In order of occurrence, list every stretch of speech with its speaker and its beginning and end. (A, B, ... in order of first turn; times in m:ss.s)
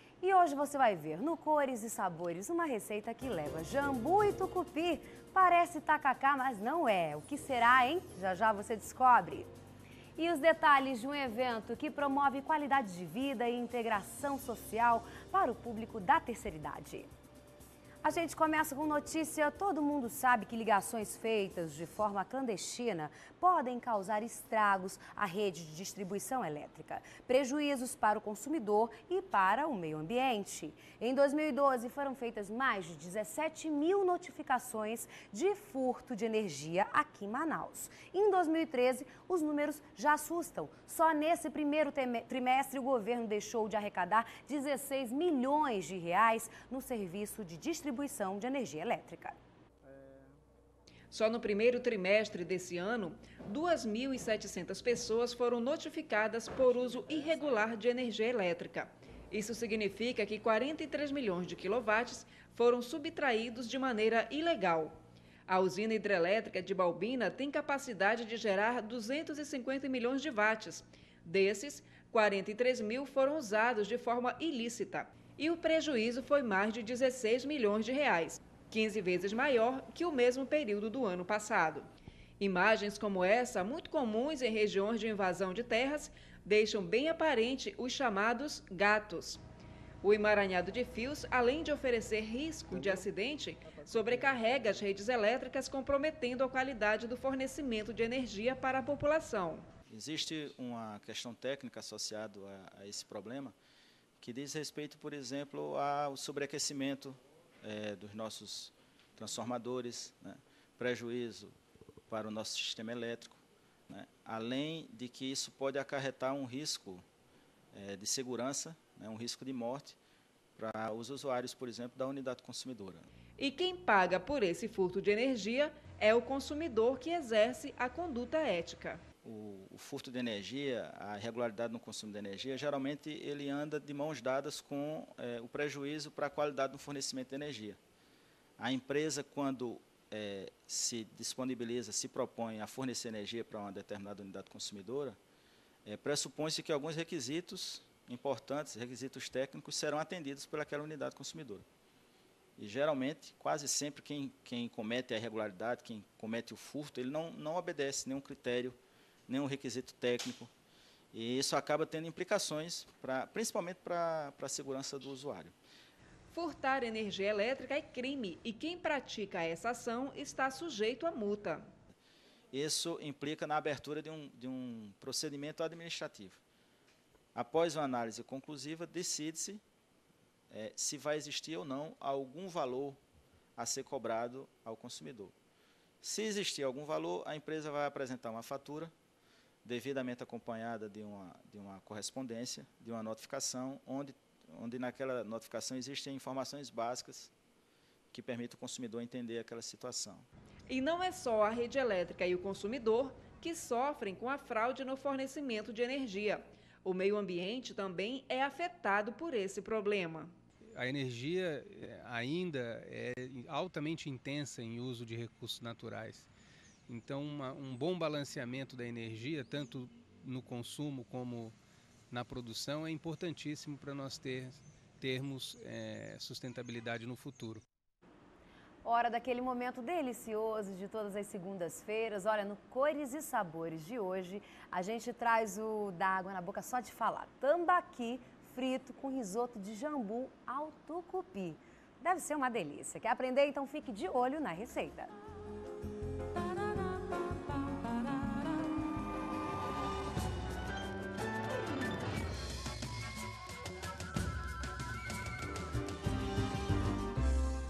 0:00.2-0:09.5 A
0:10.2-0:17.1 A
0:18.0-0:49.3 A
0:51.1-1:21.9 B
1:22.4-1:29.4 B
1:30.0-1:39.7 B
1:39.9-1:43.5 C
1:44.2-1:51.5 C
1:52.1-1:57.0 C
1:57.7-2:00.0 C
2:00.6-2:03.1 C
2:03.4-2:09.0 B
2:09.2-2:17.8 C
2:18.6-2:25.2 C
2:25.8-2:31.6 C
2:32.6-2:40.5 C
2:41.1-2:45.5 C
2:46.3-2:51.7 B
2:52.5-2:56.4 C
2:57.3-2:59.6 C
3:00.5-3:03.0 C
3:03.6-3:05.3 C
3:06.0-3:08.9 C
3:09.6-3:17.3 C
3:18.1-3:20.3 C
3:20.7-3:30.3 B
3:30.8-3:36.3 D
3:36.9-3:41.6 D
3:42.1-3:47.6 D
3:48.8-4:05.1 A